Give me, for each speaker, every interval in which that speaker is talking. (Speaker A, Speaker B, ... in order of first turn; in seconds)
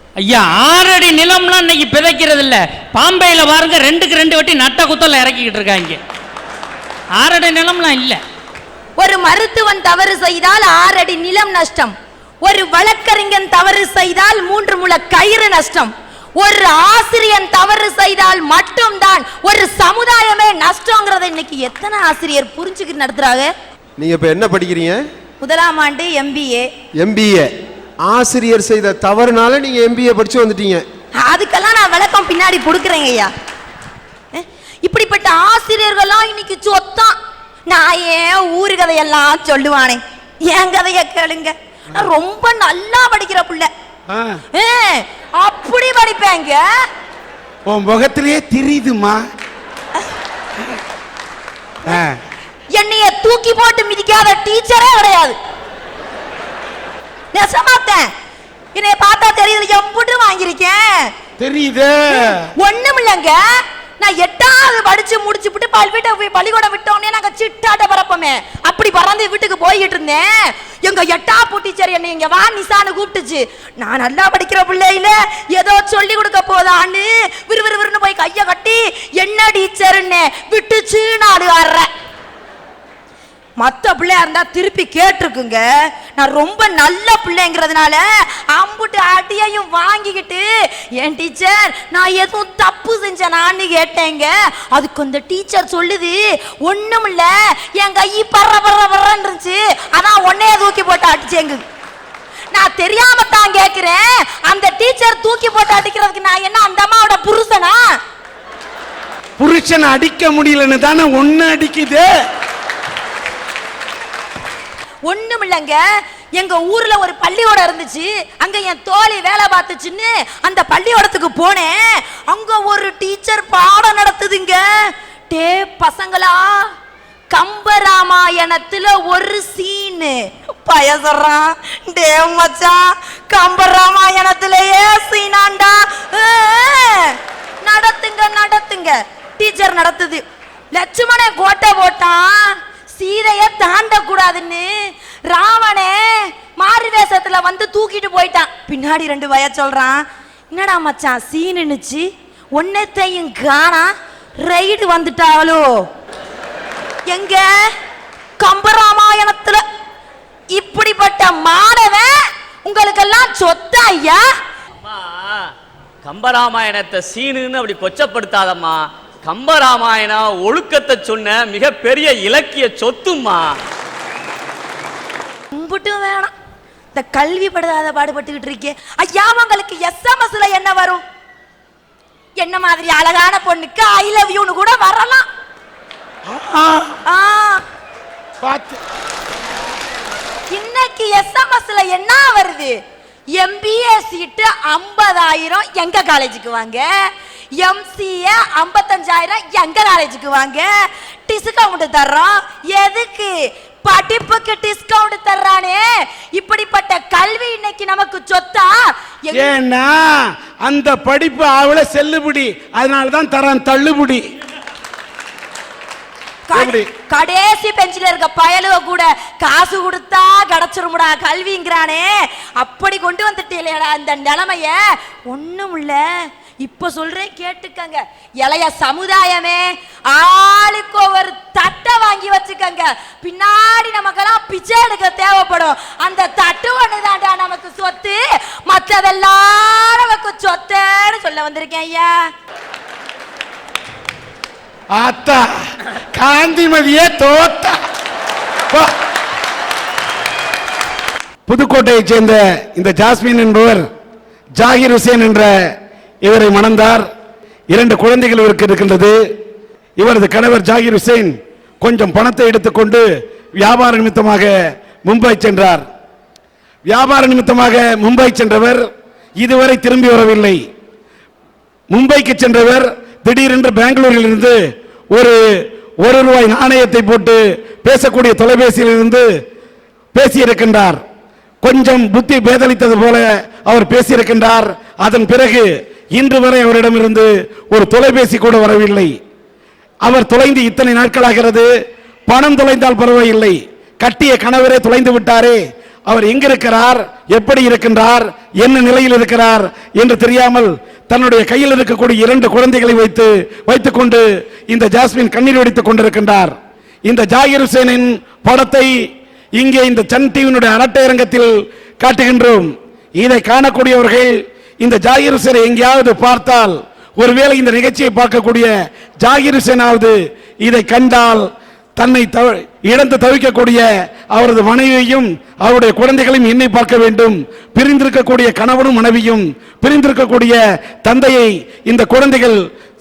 Speaker A: 0.2-6.0, 7.2-8.2
Speaker B: 9.0-23.5, 25.4-26.7, 31.2-33.3, 34.3-43.7, 44.5-46.6, 52.7-55.4, 57.3-58.1, 58.7-61.1, 62.1-81.9, 83.6-101.6, 102.5-107.8, 115.0-115.8, 116.3-126.7, 127.3-153.9, 154.4-155.7, 157.1-157.4, 158.4-159.6, 160.5-164.2, 175.5-176.3, 176.9-181.0, 182.4-185.3, 187.1-187.6, 190.5-192.8, 193.4-196.9, 197.6-200.7, 201.3-203.3, 203.8-209.6, 216.5-242.3
Speaker C: 24.0-25.0, 27.0-27.5, 28.0-30.8
Speaker D: 44.1-44.4, 47.7-49.2, 51.9-52.2, 61.4-62.4, 109.4-112.1, 186.3-186.9, 188.4-188.8, 209.3-210.0, 210.6-214.2, 216.5-216.9, 244.9-245.4, 246.1-247.8, 251.5-253.8, 254.6-255.5, 256.2-257.0, 257.7-259.1, 260.0-263.0, 263.6-264.5, 265.1-265.8, 266.9-268.8, 269.4-270.6, 271.9-274.6, 275.1-275.4, 276.0-279.2, 280.1-281.0, 281.6-289.1, 290.0-291.7, 292.3-306.5, 307.1-308.9, 309.6-314.3, 314.8-321.4, 322.0-332.6
Speaker E: 164.8-165.4, 166.0-173.5